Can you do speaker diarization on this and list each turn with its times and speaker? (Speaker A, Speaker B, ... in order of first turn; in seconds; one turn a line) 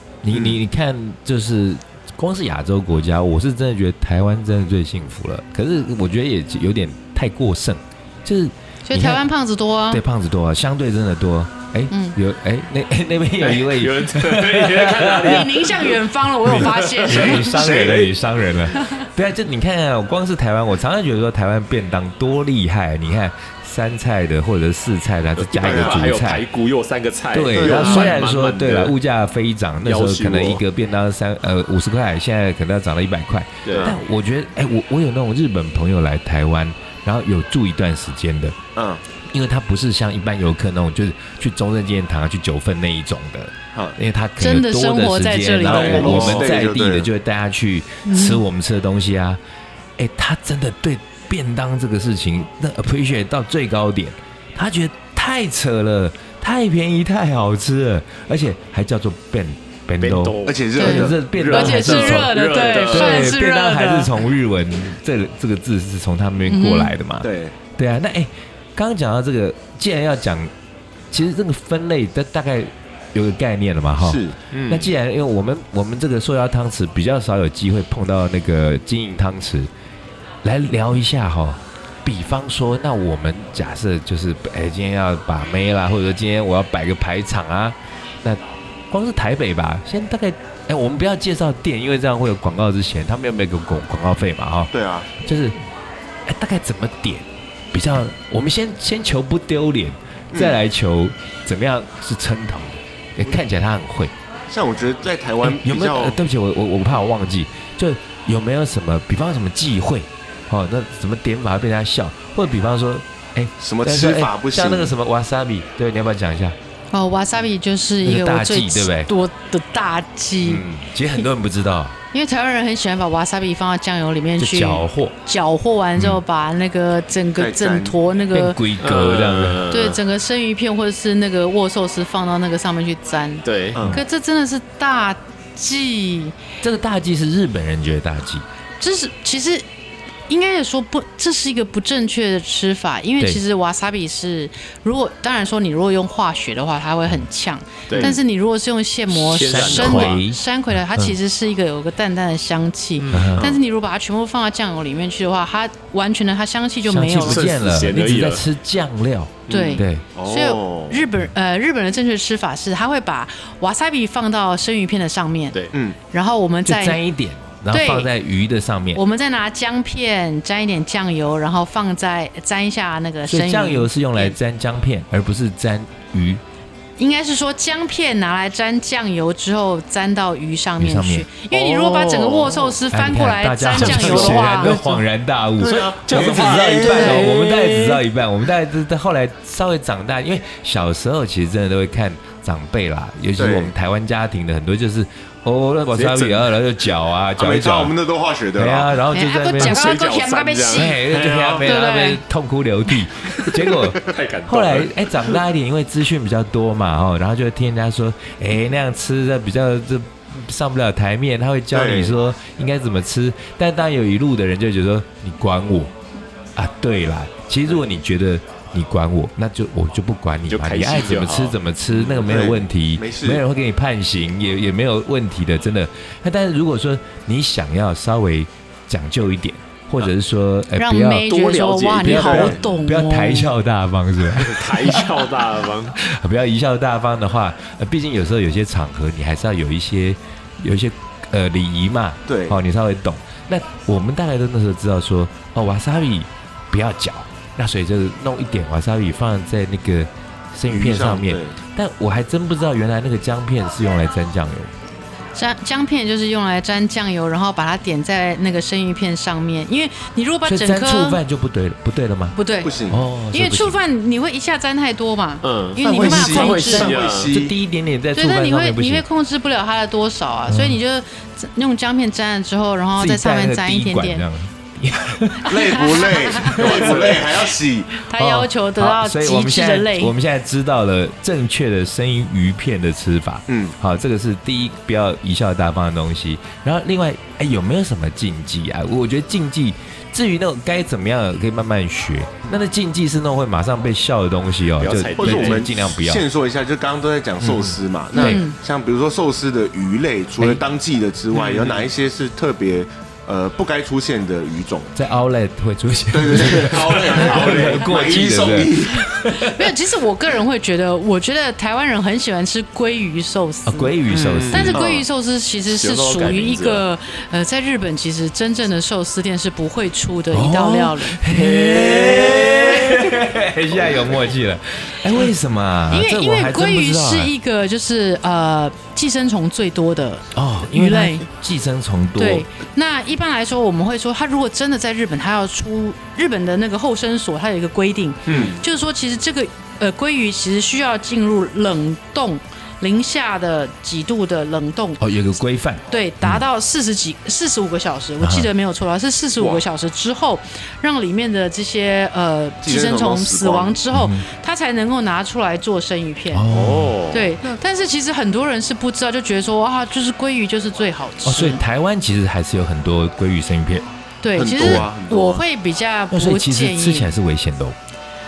Speaker A: 0.2-9.3
Speaker B: 0.3-0.6
Speaker C: 8.8-10.0
Speaker A: 9.9-15.7
Speaker C: 11.9-12.2
Speaker D: 13.4-18.1
Speaker C: 15.2-17.7
Speaker A: 16.4-26.4
Speaker B: 17.1-18.1
Speaker C: 18.8-19.0
Speaker D: 25.4-28.9
Speaker B: 25.6-26.1
Speaker A: 27.3-38.6
Speaker B: 27.5-28.2
Speaker D: 29.8-30.6
Speaker D: 33.6-33.9
Speaker B: 38.7-39.0
Speaker A: 39.3-49.4
Speaker C: 44.4-46.4
Speaker B: 45.6-47.1
Speaker D: 45.7-46.5
Speaker C: 48.0-48.4
Speaker A: 50.0-70.5
Speaker D: 60.0-63.3
Speaker B: 60.4-61.2
Speaker C: 60.7-64.2
Speaker C: 66.5-66.9
Speaker B: 67.2-67.5
Speaker A: 71.1-79.7
Speaker B: 74.0-74.8
Speaker A: 80.4-95.5
Speaker B: 94.7-95.1
Speaker A: 96.2-104.1
Speaker B: 100.3-100.6
Speaker B: 104.5-106.2
Speaker A: 105.4-116.5
Speaker B: 113.6-114.9
Speaker C: 116.9-120.6
Speaker A: 118.0-119.1
Speaker A: 120.4-122.0
Speaker C: 122.1-128.6
Speaker A: 124.4-125.1
Speaker A: 126.0-126.2
Speaker B: 127.4-128.0
Speaker A: 128.3-129.7
Speaker D: 128.8-130.0
Speaker C: 129.7-136.3
Speaker D: 133.4-133.8
Speaker B: 133.7-134.0
Speaker A: 136.6-138.4
Speaker C: 138.8-139.6
Speaker C: 140.3-157.5
Speaker D: 147.9-148.2
Speaker D: 149.1-150.2
Speaker A: 149.4-150.4
Speaker D: 153.0-153.4
Speaker A: 153.1-153.5
Speaker A: 156.8-160.0
Speaker D: 157.2-158.4
Speaker D: 159.5-159.8
Speaker C: 159.5-165.6
Speaker B: 160.1-161.1
Speaker B: 165.7-166.0
Speaker C: 166.1-167.0
Speaker A: 166.6-169.0
Speaker C: 167.7-168.1
Speaker C: 168.9-174.3
Speaker A: 173.3-176.4
Speaker C: 177.0-184.8
Speaker A: 180.8-181.3
Speaker D: 181.5-182.8
Speaker A: 182.9-197.9
Speaker D: 183.7-185.0
Speaker D: 185.6-188.0
Speaker B: 185.6-187.1
Speaker B: 193.4-193.7
Speaker D: 195.9-196.5
Speaker B: 197.4-198.9
Speaker A: 198.5-199.9
Speaker C: 199.1-201.0
Speaker D: 199.6-201.7
Speaker A: 200.7-215.9
Speaker B: 201.2-201.6
Speaker C: 201.6-202.2
Speaker D: 203.4-205.3
Speaker B: 211.7-212.2
Speaker A: 216.5-231.3
Speaker D: 220.5-221.6
Speaker B: 221.9-223.4
Speaker C: 230.8-233.5
Speaker D: 231.3-232.6
Speaker A: 232.0-235.4
Speaker D: 234.4-235.9
Speaker A: 235.9-254.7
Speaker B: 242.3-242.6
Speaker B: 250.7-251.6
Speaker C: 255.3-261.2
Speaker A: 260.4-262.4
Speaker C: 262.3-262.7
Speaker B: 262.6-263.0
Speaker A: 262.9-263.8
Speaker C: 263.3-266.9
Speaker D: 265.4-267.3
Speaker B: 265.8-267.5
Speaker A: 265.9-269.0
Speaker C: 268.1-274.2
Speaker A: 270.5-270.8
Speaker A: 272.9-277.0
Speaker B: 275.4-278.0
Speaker C: 275.5-276.9
Speaker D: 276.6-277.3
Speaker C: 278.0-280.1
Speaker A: 278.1-296.2
Speaker B: 283.5-283.7
Speaker D: 294.8-295.6
Speaker B: 295.2-304.9
Speaker A: 297.4-298.4
Speaker C: 298.1-298.6
Speaker D: 301.3-301.9
Speaker A: 304.9-309.7
Speaker B: 306.1-309.1
Speaker D: 306.4-308.1
Speaker C: 309.4-313.9
Speaker A: 313.6-314.8
Speaker B: 314.1-315.0
Speaker D: 314.2-314.5
Speaker C: 314.5-321.2
Speaker D: 315.6-316.8
Speaker A: 320.3-327.3
Speaker D: 321.3-323.2
Speaker C: 325.9-331.2
Speaker A: 330.3-332.4
Speaker C: 332.1-345.0
Speaker B: 338.3-338.6
Speaker A: 345.0-346.4
Speaker C: 345.9-356.4
Speaker A: 348.2-348.5
Speaker B: 352.6-353.8
Speaker A: 353.9-354.2
Speaker A: 356.3-357.0
Speaker D: 356.5-357.4
Speaker C: 357.1-361.6
Speaker A: 361.2-363.8
Speaker C: 364.2-367.1
Speaker B: 364.3-365.4
Speaker A: 364.6-364.8
Speaker A: 366.1-367.8